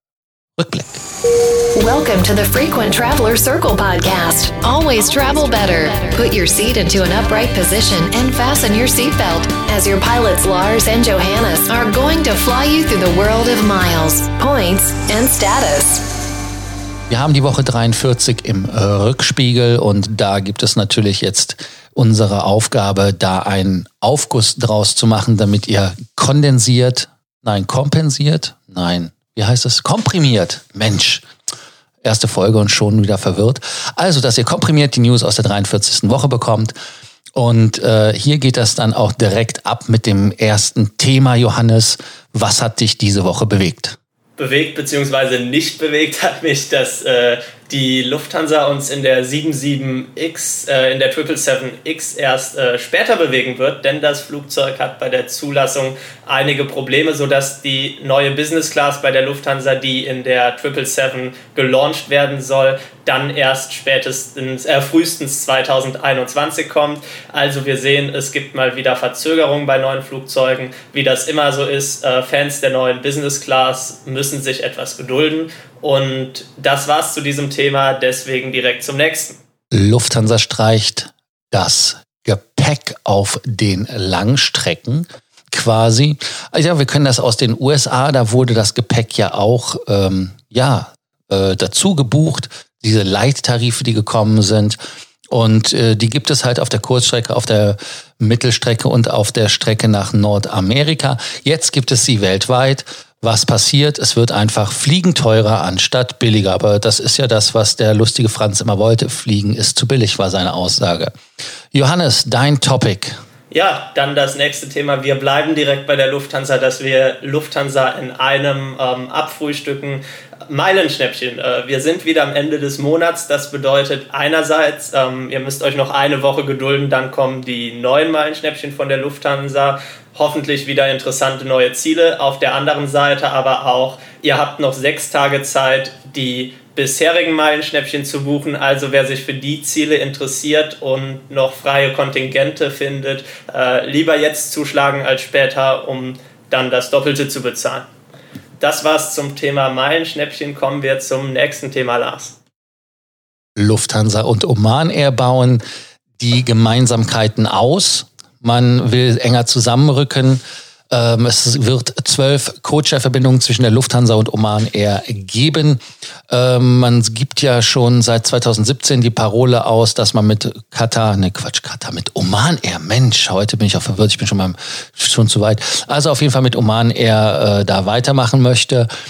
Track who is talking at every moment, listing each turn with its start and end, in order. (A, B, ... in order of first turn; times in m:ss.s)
0:00.6-0:01.0 A
0:01.7-0:16.0 B
0:17.1-0:31.2 A
0:32.0-0:36.7 A
0:37.4-0:44.0 A
0:44.4-1:19.4 C
1:19.7-1:34.8 A
1:35.3-1:51.1 A
1:51.7-1:53.1 A
1:53.5-2:27.8 C
2:28.6-2:32.4 C
2:33.6-2:35.6 A
2:36.2-2:45.8 A
2:46.3-2:58.9 A